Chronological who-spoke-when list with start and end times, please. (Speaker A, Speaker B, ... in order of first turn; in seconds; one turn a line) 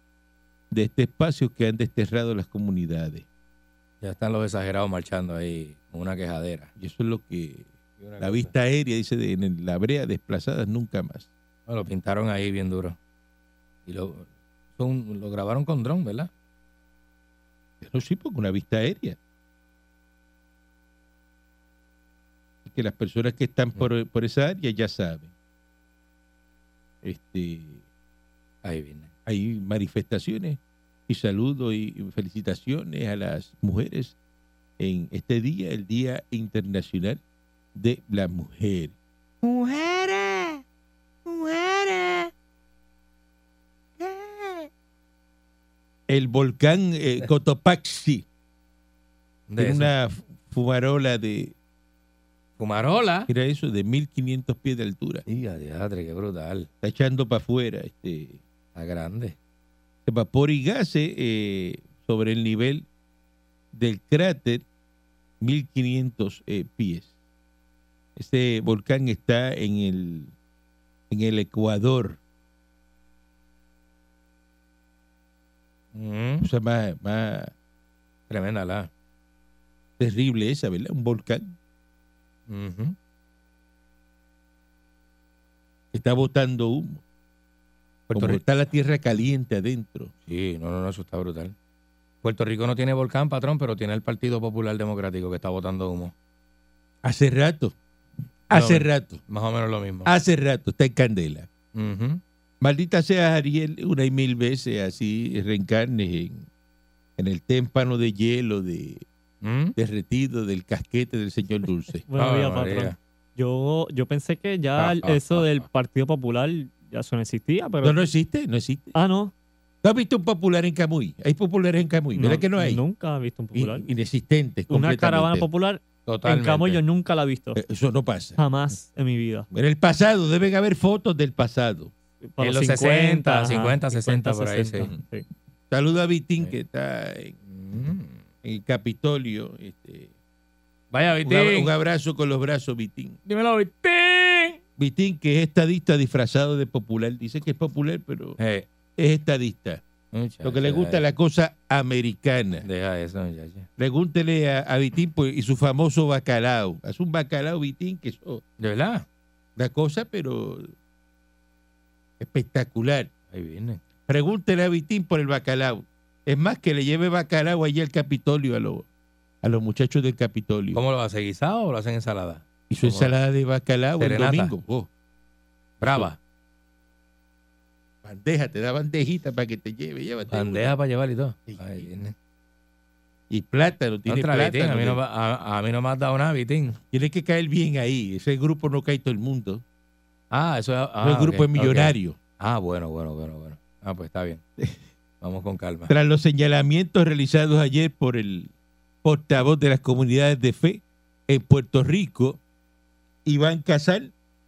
Speaker A: 0.7-3.2
Speaker B: 4.0-6.7
Speaker A: 6.8-7.7
Speaker B: 8.0-8.5
Speaker A: 8.2-11.3
Speaker B: 11.7-13.0
Speaker B: 13.8-16.3
Speaker A: 17.8-19.2
Speaker A: 22.6-25.3
Speaker A: 27.0-27.8
Speaker B: 28.6-29.1
Speaker A: 29.2-34.1
Speaker A: 34.8-37.2
Speaker A: 37.7-38.9
Speaker C: 39.4-40.6
Speaker C: 41.3-42.3
Speaker C: 44.0-44.7
Speaker A: 46.1-48.2
Speaker B: 49.5-49.9
Speaker A: 49.6-51.5
Speaker B: 52.6-53.3
Speaker A: 53.3-55.2
Speaker B: 55.3-56.7
Speaker A: 56.8-58.4
Speaker B: 58.7-59.4
Speaker A: 60.0-62.8
Speaker A: 63.7-64.6
Speaker A: 65.4-67.1
Speaker A: 68.2-70.3
Speaker A: 71.1-72.2
Speaker B: 75.9-76.5
Speaker A: 76.4-77.5
Speaker B: 78.3-78.9
Speaker A: 80.0-81.5
Speaker B: 82.5-83.0
Speaker A: 85.9-87.0
Speaker A: 88.1-90.1
Speaker B: 88.1-88.4
Speaker B: 90.3-91.5
Speaker B: 92.2-96.1
Speaker A: 97.0-97.7
Speaker A: 98.5-99.2
Speaker B: 98.5-100.1
Speaker A: 100.0-101.5
Speaker B: 101.7-102.2
Speaker A: 102.6-106.5
Speaker A: 107.2-109.0
Speaker B: 109.4-109.8
Speaker A: 109.8-112.0
Speaker D: 112.1-118.0
Speaker B: 112.2-113.0
Speaker B: 114.8-115.7
Speaker A: 117.8-119.0
Speaker D: 118.9-119.3
Speaker A: 119.8-122.8
Speaker D: 122.1-123.9
Speaker A: 123.5-125.5
Speaker D: 124.7-127.6
Speaker B: 126.1-126.8
Speaker A: 127.5-128.4
Speaker D: 128.4-129.5
Speaker A: 129.5-131.9
Speaker D: 132.2-135.2
Speaker B: 132.4-134.9
Speaker A: 135.7-137.3
Speaker B: 137.4-138.2
Speaker A: 138.4-140.1
Speaker B: 140.9-141.7
Speaker A: 141.2-143.2
Speaker B: 143.2-144.6
Speaker A: 144.8-148.4
Speaker B: 148.4-148.7
Speaker A: 149.0-149.8
Speaker B: 150.1-151.0
Speaker A: 150.4-152.7
Speaker B: 152.6-153.7
Speaker A: 153.8-158.4
Speaker B: 158.6-159.0
Speaker A: 159.6-160.7
Speaker A: 162.2-163.1
Speaker B: 163.3-163.8
Speaker A: 164.1-168.8
Speaker A: 169.4-170.8
Speaker B: 170.7-173.1
Speaker A: 172.7-174.9
Speaker B: 174.0-174.5
Speaker B: 175.8-176.2
Speaker A: 175.8-176.1
Speaker A: 178.0-180.7
Speaker B: 180.3-182.1
Speaker A: 181.5-181.9
Speaker A: 183.3-185.0
Speaker B: 184.1-186.8
Speaker A: 186.9-189.6
Speaker B: 190.3-194.4
Speaker A: 191.0-192.2
Speaker B: 195.2-195.9
Speaker A: 195.9-198.5
Speaker A: 199.0-202.4
Speaker A: 203.2-204.1